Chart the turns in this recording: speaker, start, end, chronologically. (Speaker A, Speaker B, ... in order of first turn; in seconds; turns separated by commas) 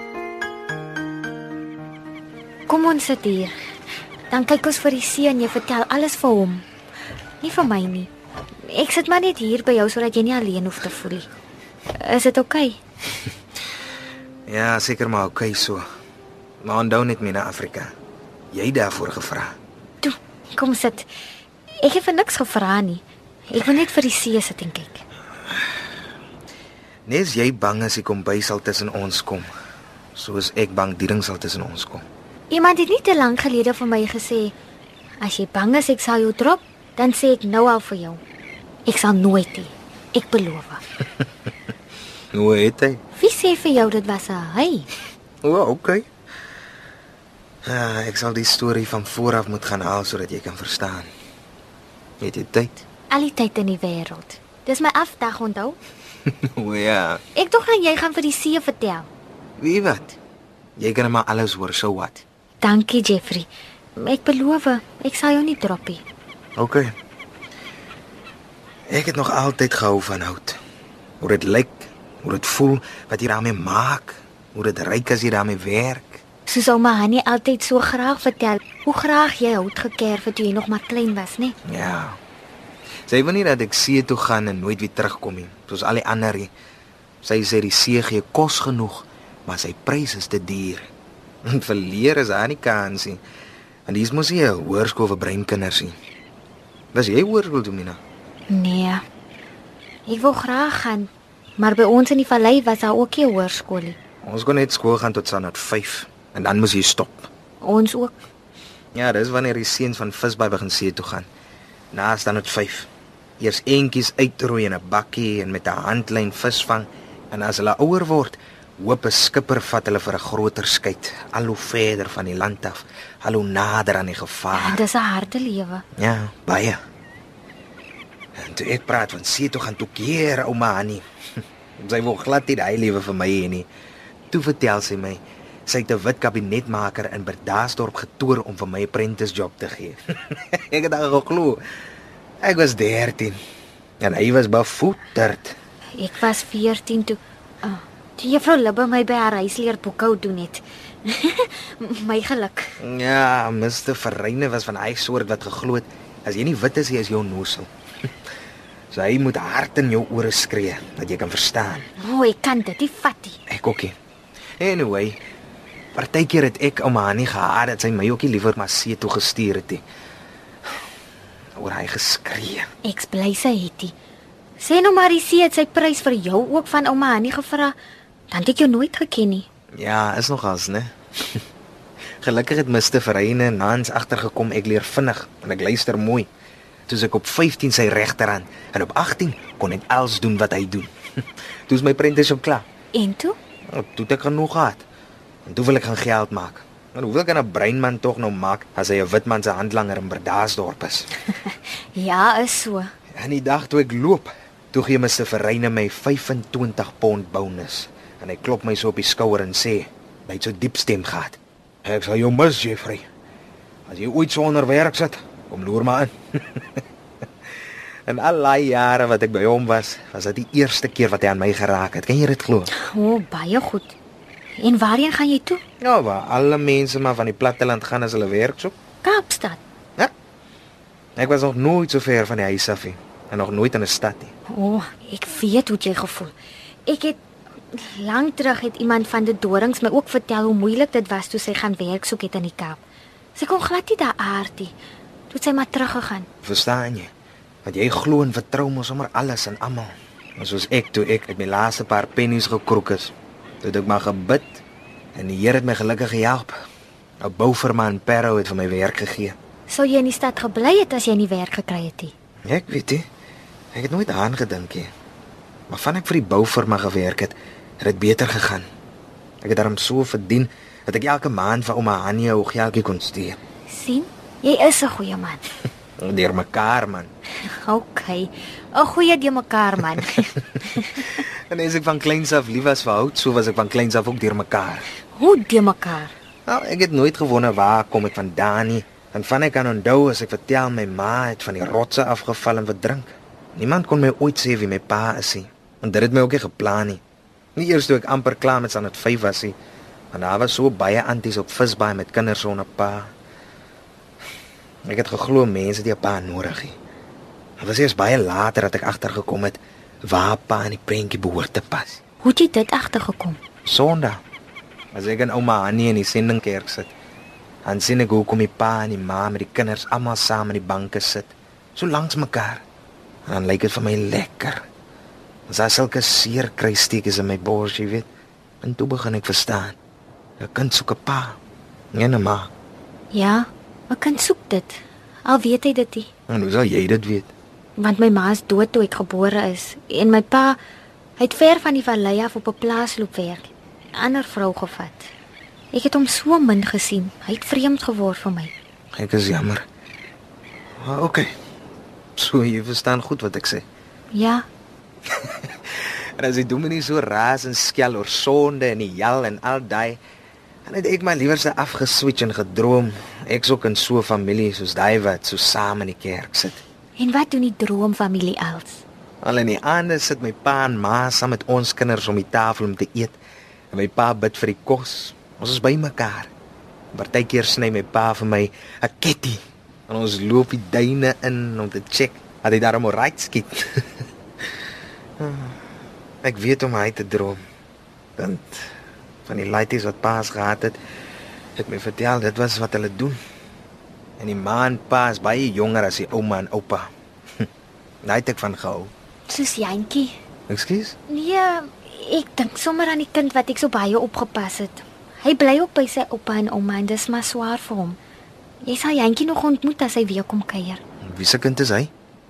Speaker A: 2.7-3.5, Speaker A: 4.3-6.6, Speaker A: 7.4-8.1, Speaker A: 8.7-11.3, Speaker A: 12.0-12.8, Speaker B: 14.5-15.8, Speaker B: 16.6-17.9, Speaker B: 18.5-19.5, Speaker A: 20.0-21.1, Speaker A: 21.8-25.0, Speaker B: 27.1-29.5, Speaker B: 30.1-32.0, Speaker A: 32.5-34.5, Speaker A: 35.2-38.2, Speaker A: 38.9-40.8, Speaker B: 42.3-43.0, Speaker A: 43.2-44.9, Speaker B: 45.4-46.0, Speaker B: 47.6-51.1, Speaker B: 52.2-52.8, Speaker A: 53.1-55.8, Speaker B: 56.3-57.2, Speaker A: 57.4-59.1, Speaker B: 59.6-60.1, Speaker B: 60.8-62.2, Speaker A: 62.6-66.0, Speaker B: 66.6-66.9, Speaker B: 68.9-70.6, Speaker B: 71.2-76.2, Speaker A: 76.5-81.5, Speaker B: 81.7-82.2, Speaker B: 83.1-86.5, Speaker B: 87.2-90.9, Speaker B: 91.4-93.2, Speaker B: 93.8-96.0, Speaker B: 96.9-98.0, Speaker A: 98.5-99.0, Speaker A: 100.1-104.0, Speaker B: 104.2-107.3, Speaker A: 107.6-108.2, Speaker B: 108.9-111.3, Speaker B: 111.9-112.9, Speaker B: 113.4-124.8, Speaker A: 124.5-125.8, Speaker B: 126.0-126.8, Speaker B: 128.4-131.0, Speaker B: 131.8-133.7, Speaker B: 134.3-141.6, Speaker B: 142.4-143.4, Speaker B: 144.0-145.6, Speaker A: 146.0-152.8, Speaker B: 152.8-157.7, Speaker B: 158.9-161.8, Speaker A: 162.0-163.4, Speaker B: 163.5-163.9, Speaker B: 164.6-165.2, Speaker B: 165.9-169.8, Speaker B: 171.6-172.7, Speaker A: 172.8-173.9, Speaker A: 174.6-177.7, Speaker A: 178.3-179.4, Speaker B: 179.8-181.4, Speaker B: 182.2-186.3, Speaker B: 186.9-190.9, Speaker B: 191.7-192.7, Speaker A: 192.9-193.4, Speaker B: 193.7-194.8, Speaker B: 195.4-201.1, Speaker A: 201.5-202.9, Speaker B: 203.2-213.1, Speaker B: 213.9-216.8, Speaker B: 218.1-222.7, Speaker A: 222.7-223.9, Speaker A: 224.6-225.6, Speaker B: 225.8-228.7, Speaker A: 229.0-229.6, Speaker B: 231.2-234.3, Speaker A: 234.5-236.3, Speaker A: 236.9-237.2, Speaker A: 237.7-242.8, Speaker A: 243.3-244.7, Speaker A: 245.3-246.2, Speaker B: 246.4-247.1, Speaker B: 247.6-254.6, Speaker B: 255.1-256.6, Speaker B: 257.2-259.4, Speaker A: 259.7-262.1, Speaker B: 262.5-263.0, Speaker B: 263.7-264.9, Speaker B: 265.7-268.6, Speaker B: 269.4-273.4, Speaker A: 273.7-275.4, Speaker B: 276.0-277.1, Speaker A: 277.5-281.1, Speaker B: 280.1-284.9, Speaker A: 285.1-286.1, Speaker B: 286.5-297.0, Speaker B: 297.6-299.6, Speaker B: 300.1-303.1, Speaker B: 304.9-306.8, Speaker B: 307.6-312.0, Speaker A: 312.2-313.4, Speaker B: 313.6-314.2, Speaker B: 314.9-316.9, Speaker B: 317.6-322.6, Speaker B: 323.2-324.6, Speaker B: 325.5-328.1, Speaker B: 328.6-329.8, Speaker B: 330.4-331.4, Speaker B: 331.9-332.5, Speaker A: 333.1-336.1, Speaker B: 336.3-337.3, Speaker A: 337.8-340.6, Speaker A: 341.2-345.1, Speaker A: 345.7-348.5, Speaker B: 348.9-349.6, Speaker B: 350.8-351.3, Speaker B: 352.1-353.6, Speaker A: 354.1-354.5, Speaker B: 355.1-360.0, Speaker B: 360.6-366.6, Speaker A: 367.0-368.8, Speaker B: 369.2-373.2, Speaker B: 373.7-376.3, Speaker B: 376.9-383.9, Speaker B: 385.2-385.6, Speaker B: 386.2-387.4, Speaker B: 388.2-388.7, Speaker B: 389.2-390.8, Speaker B: 391.6-393.2, Speaker B: 394.2-396.9, Speaker B: 398.0-398.9, Speaker A: 399.3-400.1, Speaker B: 400.5-400.9, Speaker A: 401.1-408.0, Speaker A: 408.6-410.8, Speaker B: 411.0-411.9